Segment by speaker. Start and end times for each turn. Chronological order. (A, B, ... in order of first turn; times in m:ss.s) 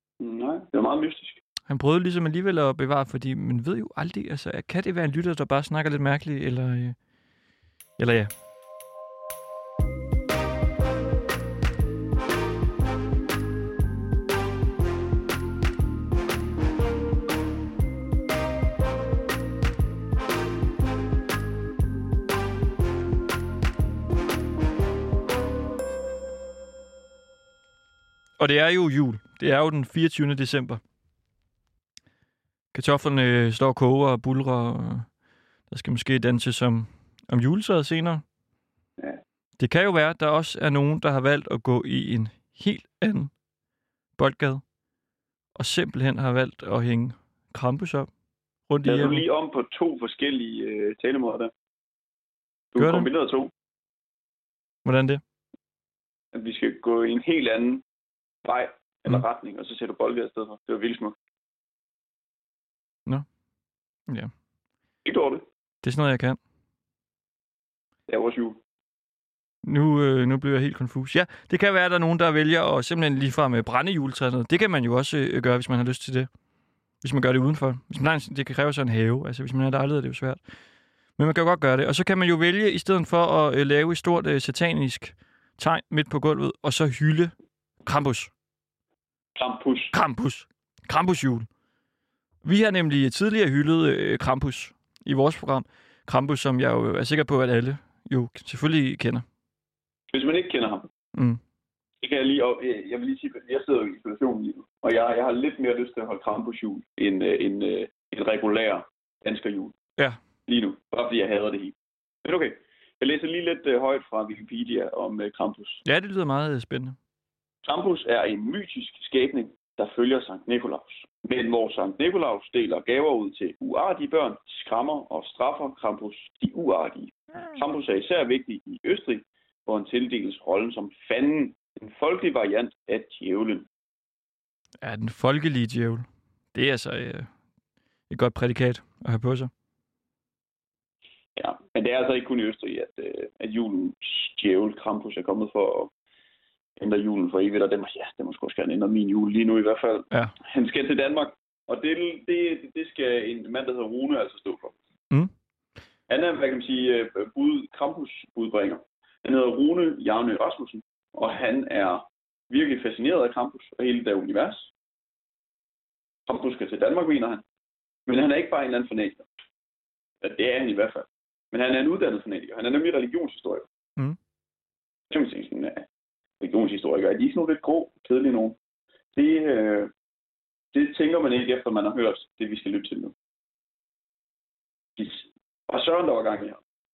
0:00.2-0:01.4 A
0:01.7-0:07.0 B
0:08.0-0:08.3 B
0:28.4-0:30.8 B
0:32.7-0:35.1 B
0:35.7-0:38.2 B
0:39.6-0:43.3 B
0:44.2-0:44.6 B
0:45.6-0:48.1 B
0:48.7-0:49.2 B
0:48.8-0:51.5 A
0:52.7-0:53.5 A
0:52.8-0:53.1 B
0:54.8-0:55.2 B
0:56.3-0:57.8 A
0:58.4-1:01.2 A
1:05.0-1:05.4 A
1:05.8-1:06.4 B
1:08.1-1:08.6 A
1:09.6-1:16.3 B
1:17.0-1:20.4 B
1:21.2-1:27.3 B
1:27.8-1:28.3 B
1:29.4-1:29.9 A
1:29.9-1:31.5 B
1:32.4-1:39.2 B
1:40.1-1:40.9 A
1:41.2-1:41.4 B
1:42.0-1:49.8 A
1:50.5-1:55.8 A
1:55.8-1:57.0 B
1:57.6-2:13.7 A
2:14.8-2:17.3 B
2:18.1-2:19.5 B
2:21.4-2:25.9 A
2:26.8-2:34.8 A
2:36.1-2:44.7 A
2:46.3-2:47.4 A
2:48.1-2:49.3 A
2:50.2-2:53.7 A
2:55.1-2:55.9 A
2:56.4-2:58.6 A
2:59.2-2:59.9 A
3:00.7-3:03.1 A
3:05.0-3:06.6 A